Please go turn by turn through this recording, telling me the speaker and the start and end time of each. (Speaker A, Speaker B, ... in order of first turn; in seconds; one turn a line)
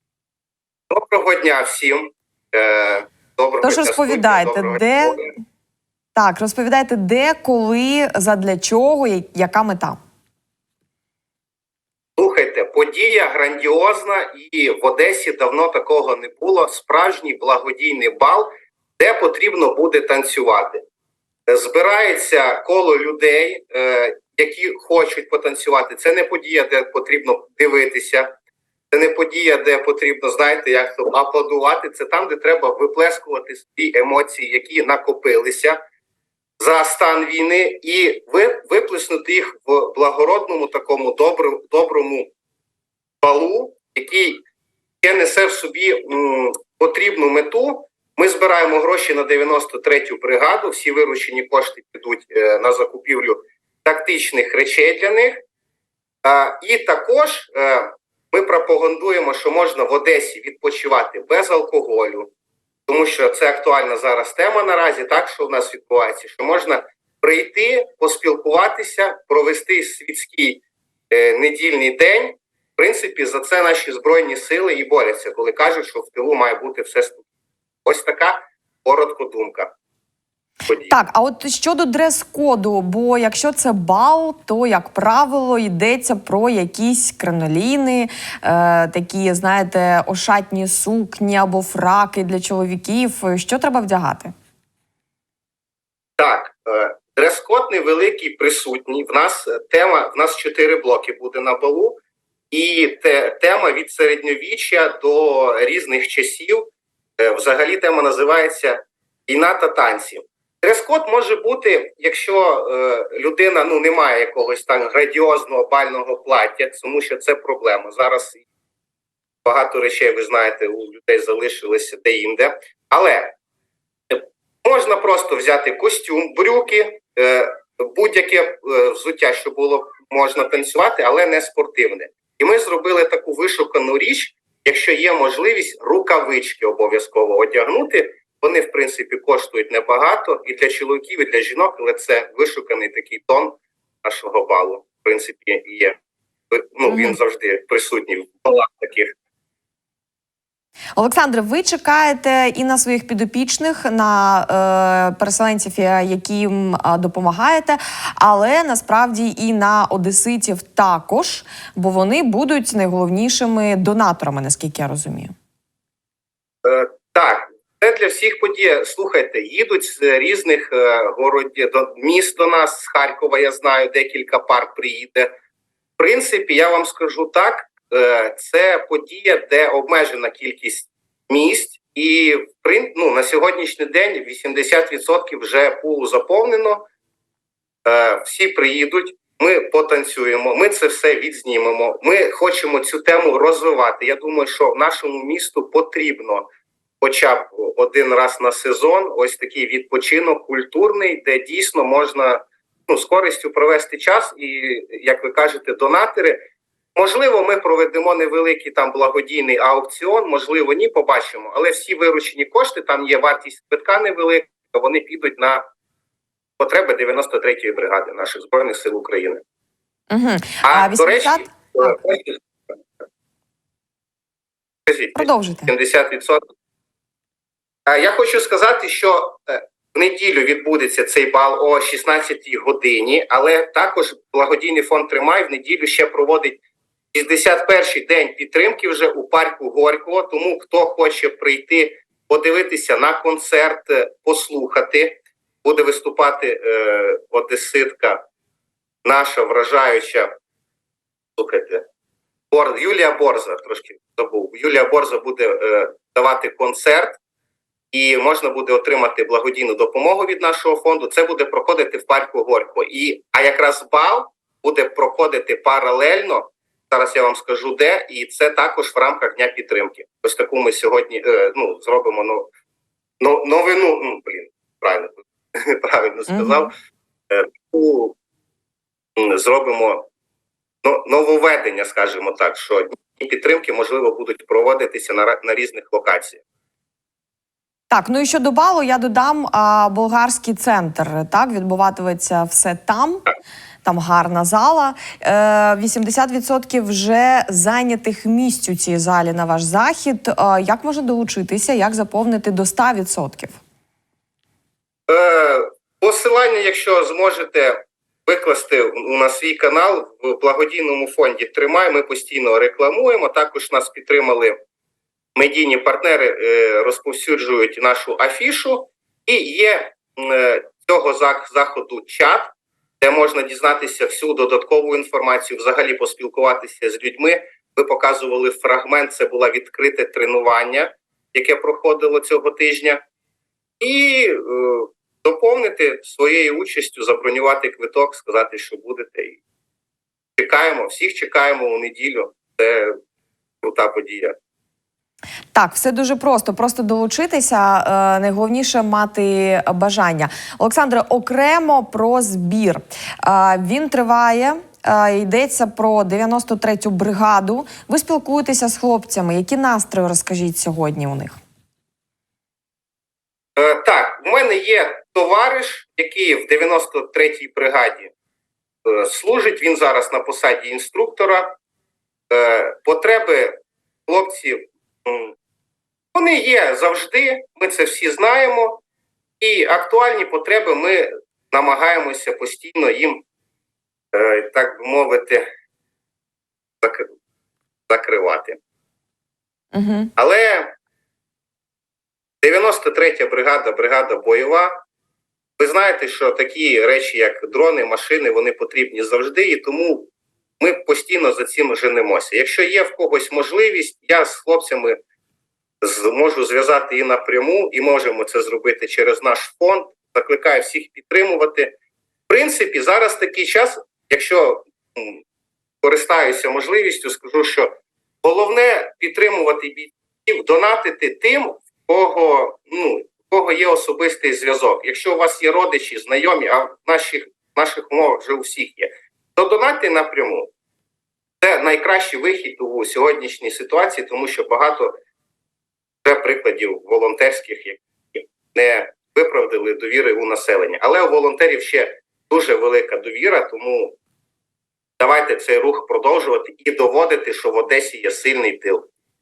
Speaker A: 0.9-5.3
Speaker B: 3.6-5.2
Speaker B: 6.2-10.0
Speaker A: 12.2-20.8
Speaker A: 21.5-28.3
Speaker A: 28.9-35.8
Speaker A: 36.6-42.3
Speaker A: 43.2-44.4
Speaker A: 45.0-55.4
Speaker A: 56.2-62.3
Speaker A: 62.9-77.2
Speaker A: 77.9-79.7
Speaker A: 80.7-80.9
Speaker B: 80.7-94.3
Speaker A: 96.2-102.0
Speaker A: 102.5-118.4
Speaker A: 119.5-123.4
Speaker A: 124.1-146.0
Speaker A: 146.5-149.1
Speaker B: 146.9-147.2
Speaker B: 151.0-165.3
Speaker A: 166.6-175.3
Speaker A: 176.0-186.8
Speaker A: 187.8-196.5
Speaker A: 197.0-206.4
Speaker A: 207.0-215.7
Speaker A: 216.6-219.4
Speaker B: 220.1-221.9
Speaker A: 220.6-222.4
Speaker A: 224.9-225.2
Speaker B: 225.2-225.8
Speaker A: 225.7-226.4
Speaker A: 227.9-236.6
Speaker A: 237.1-248.2
Speaker A: 249.1-250.3
Speaker A: 251.4-251.9
Speaker A: 252.5-257.2
Speaker A: 257.9-272.5
Speaker A: 273.2-276.7
Speaker B: 276.3-276.7
Speaker A: 277.3-278.2
Speaker A: 279.2-280.1
Speaker A: 280.8-286.4
Speaker B: 287.9-293.3
Speaker B: 293.8-303.6
Speaker A: 305.1-314.6
Speaker A: 315.4-333.0
Speaker A: 333.8-339.4
Speaker A: 340.4-343.0
Speaker A: 343.6-344.4
Speaker B: 345.5-361.4
Speaker A: 363.6-368.1
Speaker A: 368.9-371.6
Speaker A: 372.3-375.3
Speaker A: 376.1-378.8
Speaker A: 379.4-383.2
Speaker A: 384.1-385.5
Speaker A: 386.8-387.1
Speaker A: 387.9-388.6
Speaker B: 389.7-390.1
Speaker A: 390.2-390.8
Speaker A: 392.4-394.8
Speaker A: 395.6-400.1
Speaker A: 400.6-405.0
Speaker A: 405.8-411.8
Speaker A: 412.3-415.2
Speaker A: 415.8-430.5
Speaker A: 431.4-435.0
Speaker A: 436.1-444.0
Speaker A: 445.0-448.9